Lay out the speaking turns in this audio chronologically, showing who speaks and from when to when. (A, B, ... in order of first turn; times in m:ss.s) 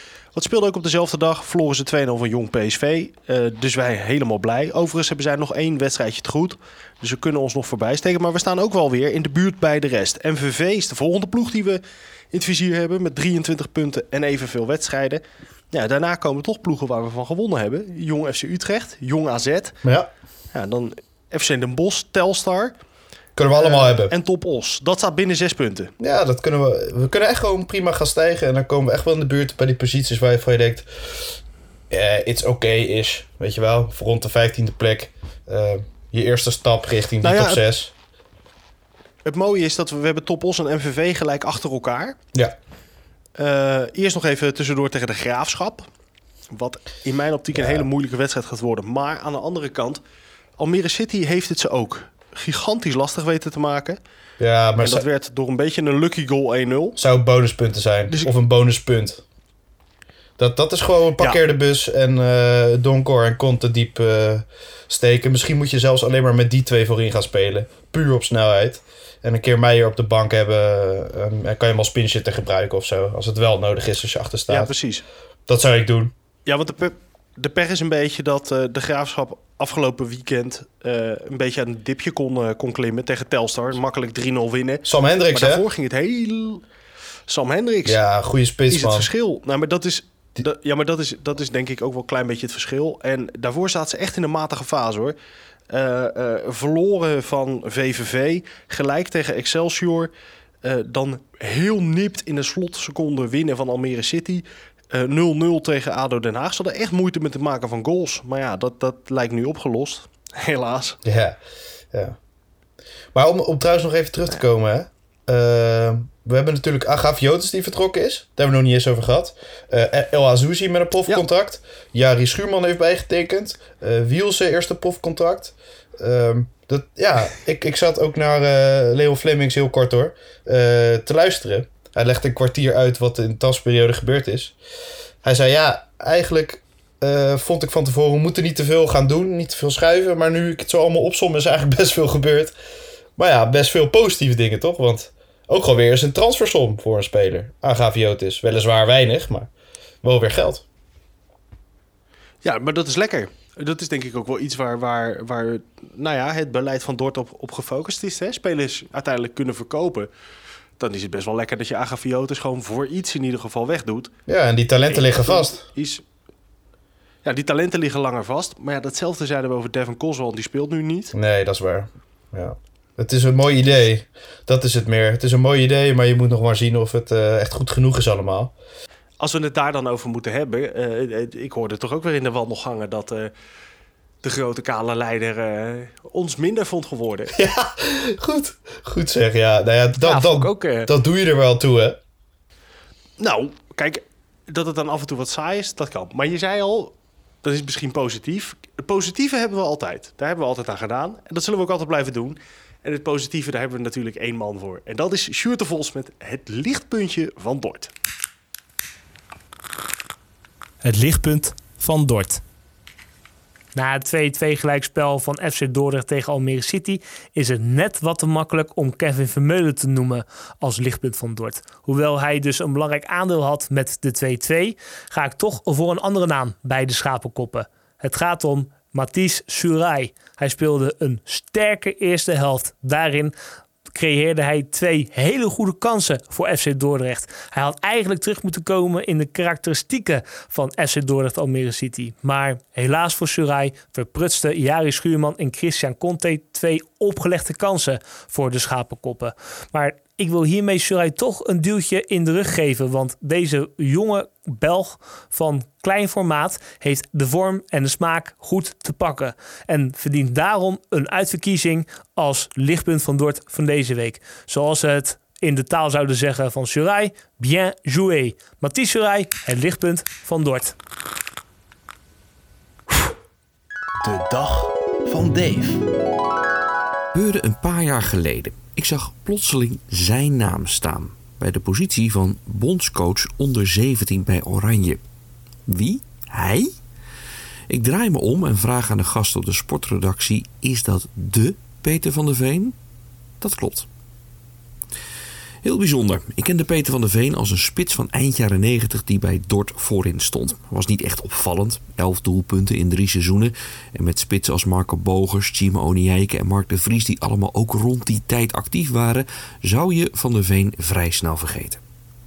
0:00.3-0:19.8 A
0:20.5-0:22.8 A
0:23.4-0:24.1 B
0:23.6-0:25.9 A
0:26.0-0:31.3 B
0:31.9-0:37.9 B
0:37.2-0:37.6 A
0:39.2-0:42.2 A
0:43.4-0:45.9 A
0:46.5-0:50.0 A
0:47.5-0:47.9 B
0:50.6-0:54.0 A
0:54.4-0:55.0 B
0:54.8-0:57.0 A
0:57.0-0:59.2 B
1:00.4-1:14.7 B
1:14.5-1:15.0 A
1:15.5-1:16.1 B
1:16.5-1:26.6 A
1:24.8-1:25.6 B
1:27.3-1:28.0 A
1:27.9-1:29.1 B
1:28.7-1:35.2 A
1:35.7-1:40.1 A
1:40.6-1:51.0 A
1:51.0-1:51.4 B
1:53.1-2:14.6 B
2:15.2-2:22.5 B
2:23.2-2:29.5 B
2:30.0-2:30.6 B
2:32.4-2:40.1 A
2:40.8-2:44.1 A
2:44.3-2:45.6 B
2:44.9-2:46.0 A
2:47.2-2:51.1 A
2:51.1-2:58.5 B
2:59.2-3:03.3 A
3:04.2-3:07.3 A
3:07.3-3:12.0 B
3:10.0-3:10.9 A
3:13.2-3:27.9 A
3:30.8-3:32.4 C
3:33.7-3:53.3 C
3:53.9-4:30.7 C
4:34.0-4:35.8 D
4:37.1-4:45.0 D
4:45.7-4:46.7 D
4:47.7-4:52.8 D
4:53.4-4:53.9 D
4:55.6-5:11.8 D